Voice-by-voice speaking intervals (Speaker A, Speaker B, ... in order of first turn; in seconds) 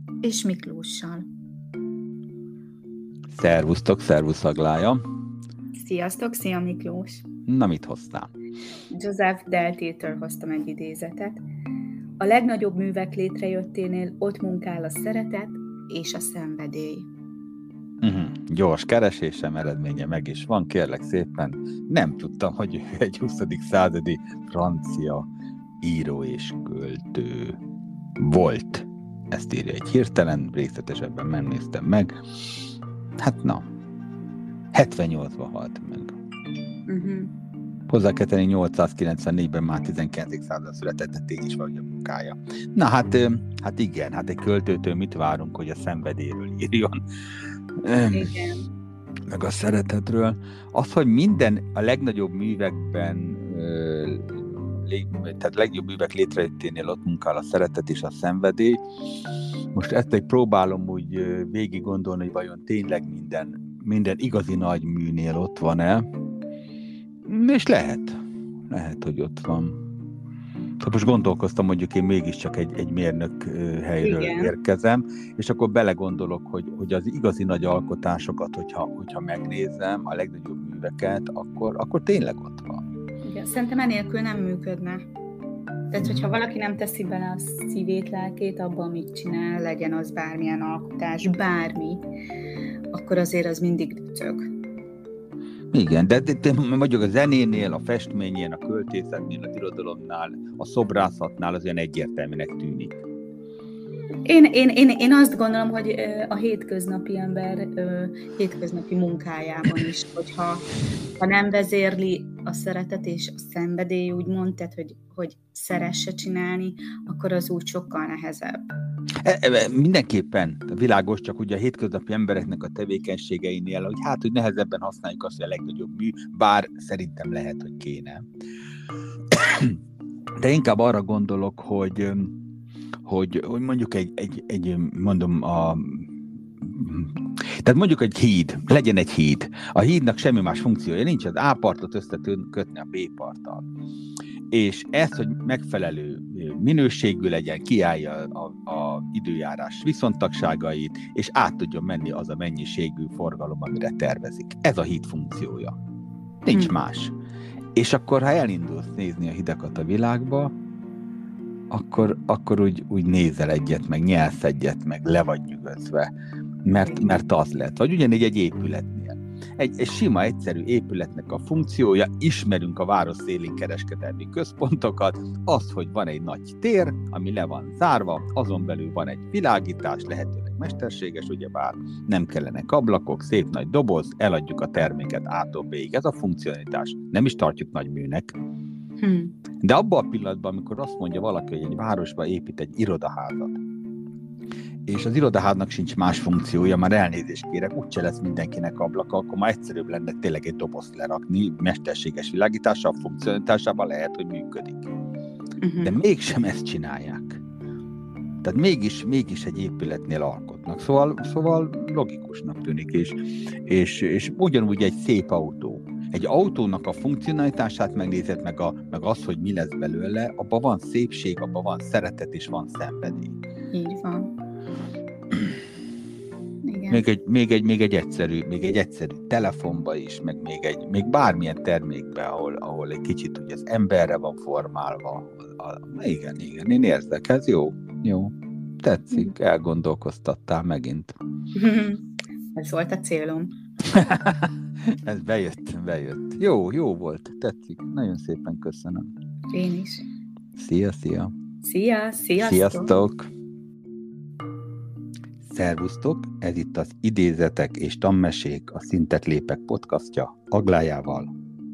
Speaker A: 0.2-1.2, 5.7-7.2, 8.9-11.4, 12.2-17.1, 36.9-37.3, 48.1-48.6, 74.0-74.5, 83.2-85.0, 85.9-92.0, 92.9-94.5, 104.2-110.7, 111.2-118.7, 166.8-167.1, 189.0-189.3, 205.6-206.0, 223.7-224.3, 226.6-227.0, 241.5-243.5, 249.5-250.1, 251.6-253.0
Speaker B: 3.3-5.0, 7.5-8.3, 18.0-25.3, 25.8-27.6, 28.2-32.1, 33.2-33.6, 34.7-36.1, 37.9-47.0, 47.8-48.3, 49.3-58.8, 59.7-66.0, 67.2-68.2, 68.7-69.8, 70.8-82.8, 86.0-86.3, 95.7-103.0, 119.2-128.2, 129.3-129.8, 130.4-132.3, 133.0-143.7, 144.5-155.8, 156.4-157.1, 157.8-160.5, 161.7-166.1, 166.7-188.3, 189.6-193.6, 194.9-204.9, 205.8-207.4, 208.4-223.4, 226.9-241.2, 243.9-249.1, 250.6-251.3, 252.4-253.3, 255.4-261.3